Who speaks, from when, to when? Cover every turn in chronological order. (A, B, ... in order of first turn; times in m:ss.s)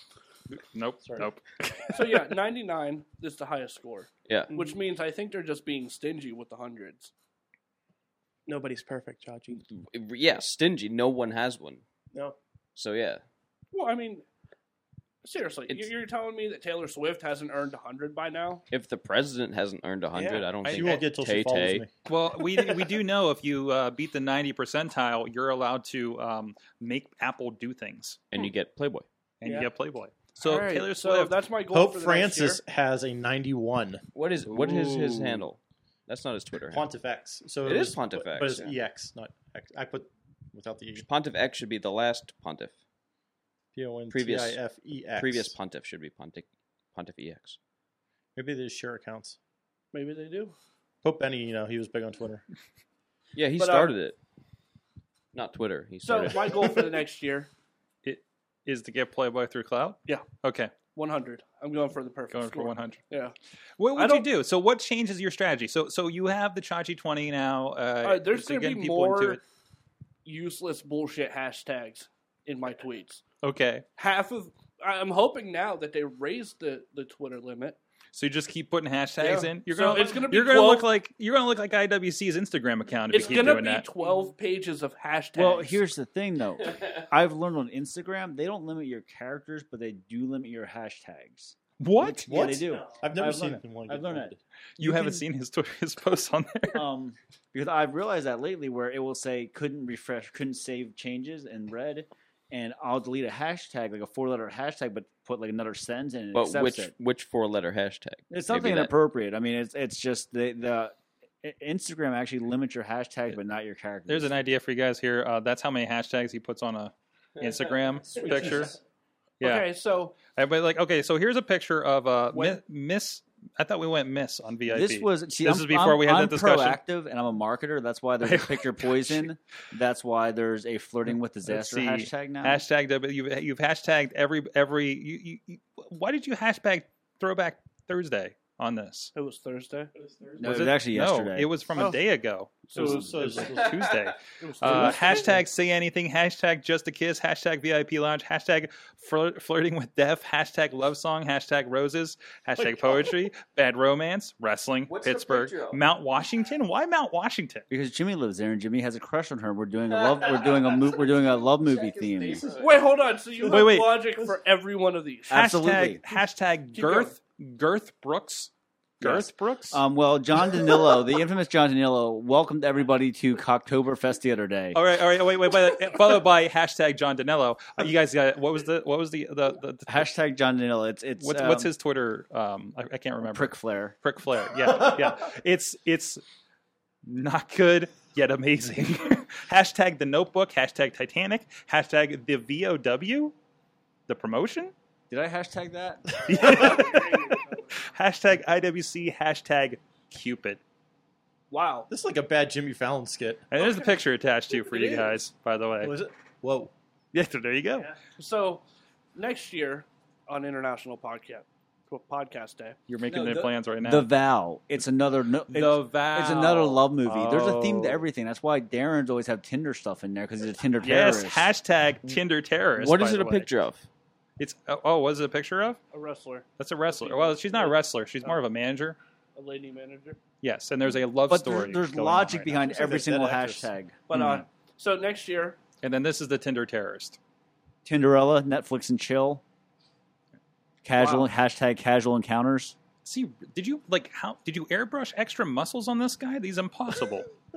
0:00.5-0:02.2 A
0:01.9-0:07.1 B
0:04.3-0:04.5 C
0:04.5-0:04.8 D
0:08.5-0:09.6 D
0:09.7-0:11.8 C
0:12.8-0:13.2 C
0:13.7-0:14.2 B
0:15.2-0:18.6 B
0:18.7-0:21.9 C
0:20.2-0:20.5 D
0:20.6-0:21.0 A
0:20.7-0:21.9 E
0:22.1-0:28.2 A
0:28.3-0:29.1 C
0:29.4-0:31.4 A
0:29.4-0:29.7 D
0:30.4-0:32.6 B
0:31.7-0:34.0 E
0:34.2-0:36.8 C
0:36.7-0:41.1 E
0:37.6-0:38.8 C
0:41.0-0:42.7 C
0:43.7-0:45.6 E
0:44.1-0:44.6 C
0:45.2-0:47.6 C
0:48.4-0:49.4 E
0:49.9-0:50.6 B
0:51.0-0:52.4 E
0:53.4-0:54.2 C
0:53.6-0:53.9 B
0:55.3-0:56.8 C
0:56.0-0:57.5 B
0:58.0-1:00.7 A
1:00.9-1:03.4 B
1:02.3-1:03.0 A
1:03.8-1:09.4 A
1:04.0-1:04.3 B
1:08.0-1:09.4 B
1:10.2-1:13.2 B
1:13.4-1:13.8 A
1:14.0-1:17.8 B
1:18.1-1:23.9 A
1:19.2-1:20.9 B
1:23.1-1:25.8 B
1:25.4-1:35.2 F
1:31.8-1:32.3 A
1:32.3-1:34.4 E
1:34.8-1:36.8 A
1:36.7-1:46.9 F
1:46.3-1:48.9 C
1:48.3-1:54.3 F
1:54.1-1:58.8 A
1:58.2-1:58.8 B
1:59.4-1:59.7 A
1:59.4-2:00.2 B
2:00.2-2:06.8 A
2:02.3-2:02.6 B
2:04.7-2:12.6 F
2:08.2-2:09.3 A
2:11.4-2:19.1 A
2:19.1-2:19.9 B
2:20.0-2:20.6 D
2:20.4-2:21.7 F
2:20.4-2:37.7 A
2:22.7-2:23.4 B
2:22.7-2:24.0 E
2:24.4-2:25.4 B
2:24.6-2:25.2 E
2:34.9-2:35.8 C
2:37.7-2:42.5 F
2:39.9-2:43.0 C
2:42.6-2:45.4 B
2:43.5-2:44.1 A
2:45.3-2:46.0 F
2:45.3-2:49.8 A
2:46.7-2:47.2 B
2:49.0-2:54.8 F
2:54.7-3:00.1 A
2:59.9-3:01.7 F
3:01.2-3:06.2 A
3:03.3-3:04.0 F
3:07.0-3:13.3 A
3:14.1-3:14.7 A
3:15.1-3:16.1 F
3:16.2-3:20.6 A
3:16.6-3:17.6 D
3:21.5-3:21.9 B
3:21.9-3:23.5 E
3:23.5-3:25.9 A
3:23.6-3:23.9 B
3:24.6-3:25.2 B
3:25.8-3:26.7 E
3:27.1-3:27.9 A
3:28.2-3:28.6 B
3:29.2-3:32.8 B
3:32.9-3:34.1 A
3:33.1-3:33.5 C
3:33.8-3:41.5 F
3:35.5-3:38.0 A
3:40.8-3:43.5 A
3:42.8-3:43.9 C
3:44.4-3:45.8 A
3:45.9-3:48.4 B
3:46.6-3:49.0 A
3:49.4-3:50.2 B
3:50.4-3:52.6 A
3:51.3-3:54.0 F
3:52.4-3:53.7 E
3:54.1-3:55.6 B
3:54.1-3:54.5 A
3:55.8-3:57.2 A
3:57.8-3:59.4 F
4:00.8-4:02.8 F
4:00.9-4:01.3 B
4:03.0-4:07.3 A